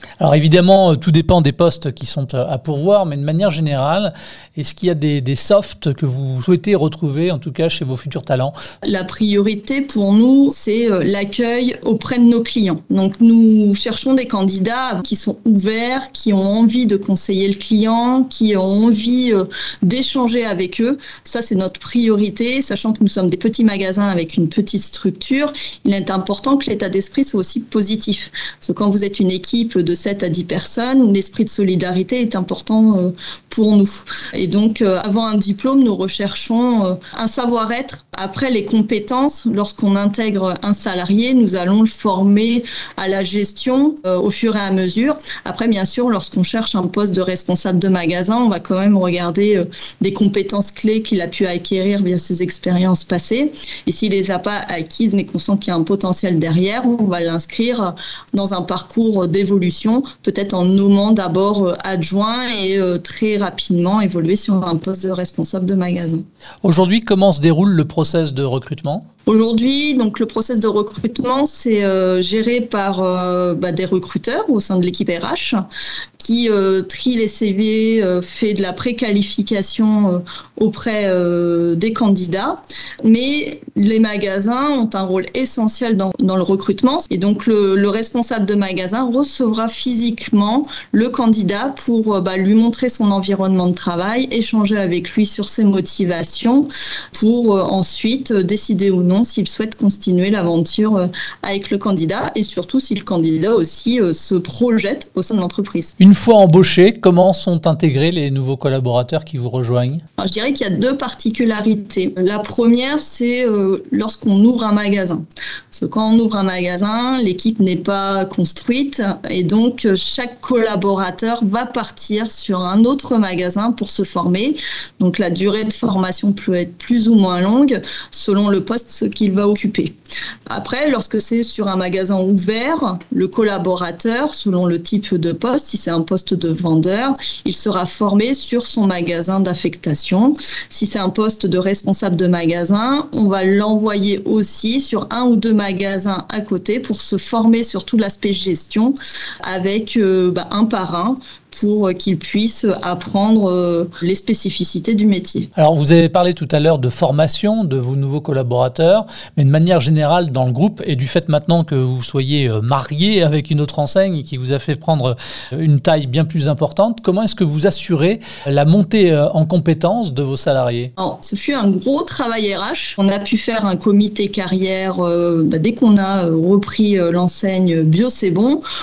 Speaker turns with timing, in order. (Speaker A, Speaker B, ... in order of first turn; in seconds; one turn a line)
Speaker A: 0.2-8.5
Speaker B: 8.8-66.2
Speaker A: 66.6-69.0
Speaker B: 69.3-75.6
Speaker B: 76.2-105.9
Speaker A: 106.0-110.0
Speaker B: 110.2-129.9
Speaker B: 130.5-155.5
Speaker A: 155.6-170.9
Speaker B: 171.0-178.6